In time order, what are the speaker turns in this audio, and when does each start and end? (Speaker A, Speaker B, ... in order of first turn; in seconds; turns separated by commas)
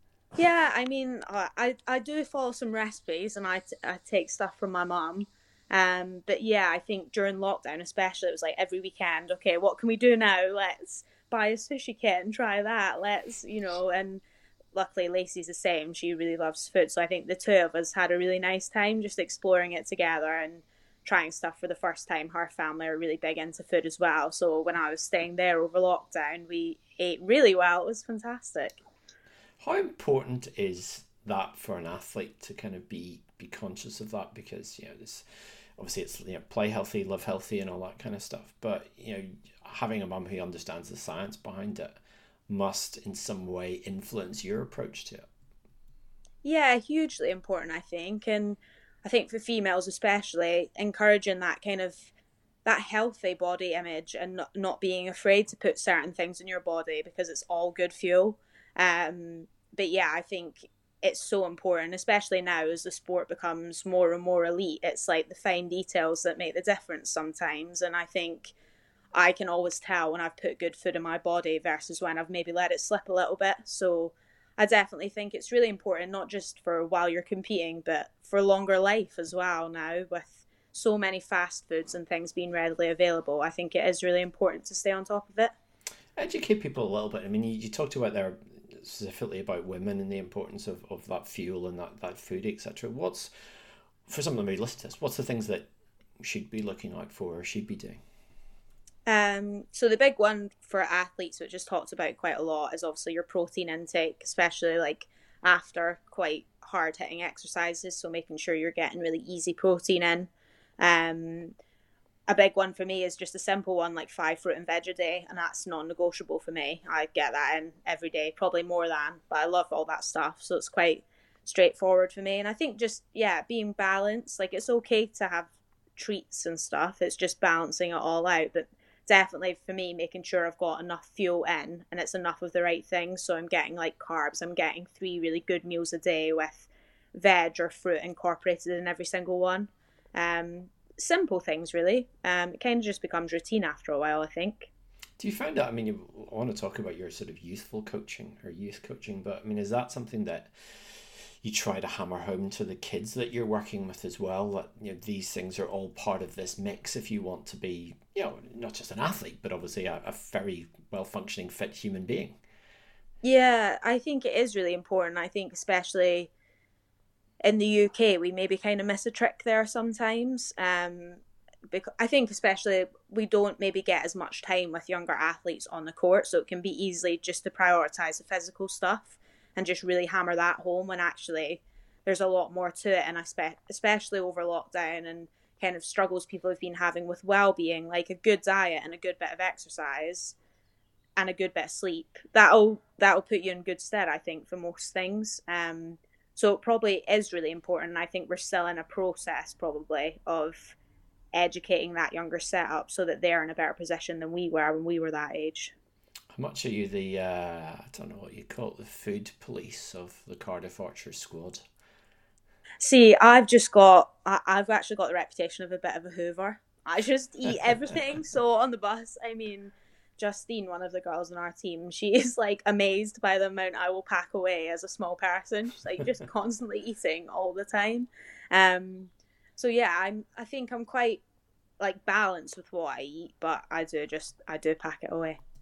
Speaker A: 0.3-14.2, Speaker A: 14.7-28.8, Speaker B: 29.6-35.2, Speaker B: 35.8-42.0, Speaker B: 42.5-45.3, Speaker A: 46.4-52.1, Speaker A: 52.6-68.5, Speaker A: 69.1-85.5, Speaker B: 86.2-93.3, Speaker B: 94.0-95.7, Speaker B: 96.2-98.0, Speaker A: 99.1-111.5, Speaker A: 112.3-144.7, Speaker B: 145.2-162.4, Speaker A: 163.2-166.3, Speaker A: 167.4-190.3, Speaker A: 191.2-200.8, Speaker A: 201.3-205.7, Speaker B: 206.3-211.6, Speaker A: 212.8-231.2, Speaker A: 231.8-235.4